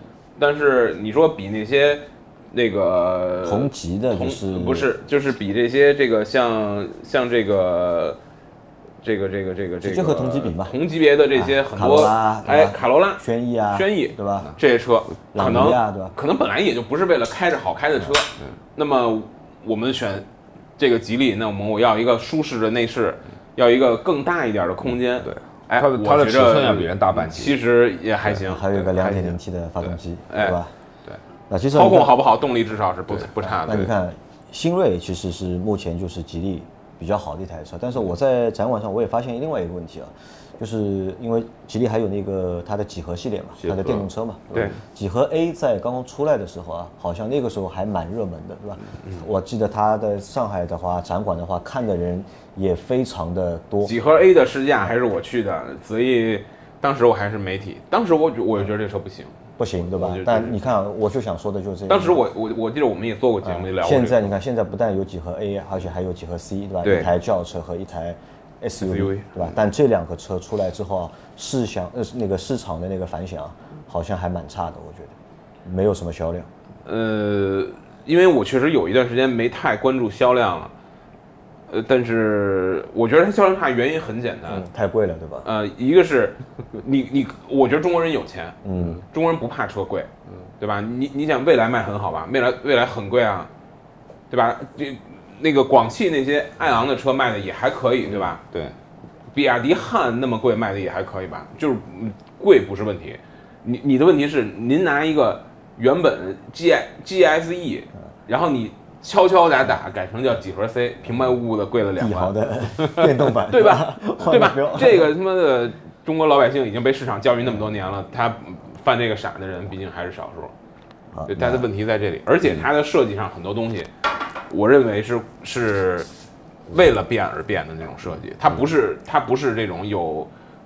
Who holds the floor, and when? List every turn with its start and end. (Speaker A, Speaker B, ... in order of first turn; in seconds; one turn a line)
Speaker A: 0.4-8.2
Speaker B: 3.4-4.9
Speaker A: 9.0-20.3
Speaker B: 9.8-10.8
Speaker B: 11.3-14.5
Speaker B: 15.3-16.1
Speaker A: 20.8-29.4
Speaker C: 25.2-27.6
Speaker B: 28.3-30.7
Speaker A: 30.3-30.6
Speaker B: 31.5-32.2
Speaker A: 31.7-33.9
Speaker B: 33.6-54.0
Speaker C: 43.6-44.1
Speaker A: 53.8-60.6
Speaker B: 59.6-62.2
Speaker A: 61.9-64.3
Speaker B: 63.4-76.5
Speaker A: 66.8-67.1
Speaker A: 68.8-69.3
Speaker A: 76.8-80.7
Speaker A: 81.7-84.7
Speaker B: 84.5-85.5
Speaker A: 85.5-88.6
Speaker B: 88.6-89.0
Speaker A: 89.1-93.5
Speaker A: 94.3-98.4
Speaker C: 98.1-98.8
Speaker A: 99.3-120.5
Speaker B: 112.0-115.1
Speaker B: 121.1-121.7
Speaker A: 121.3-123.9
Speaker A: 124.5-126.1
Speaker A: 126.7-130.3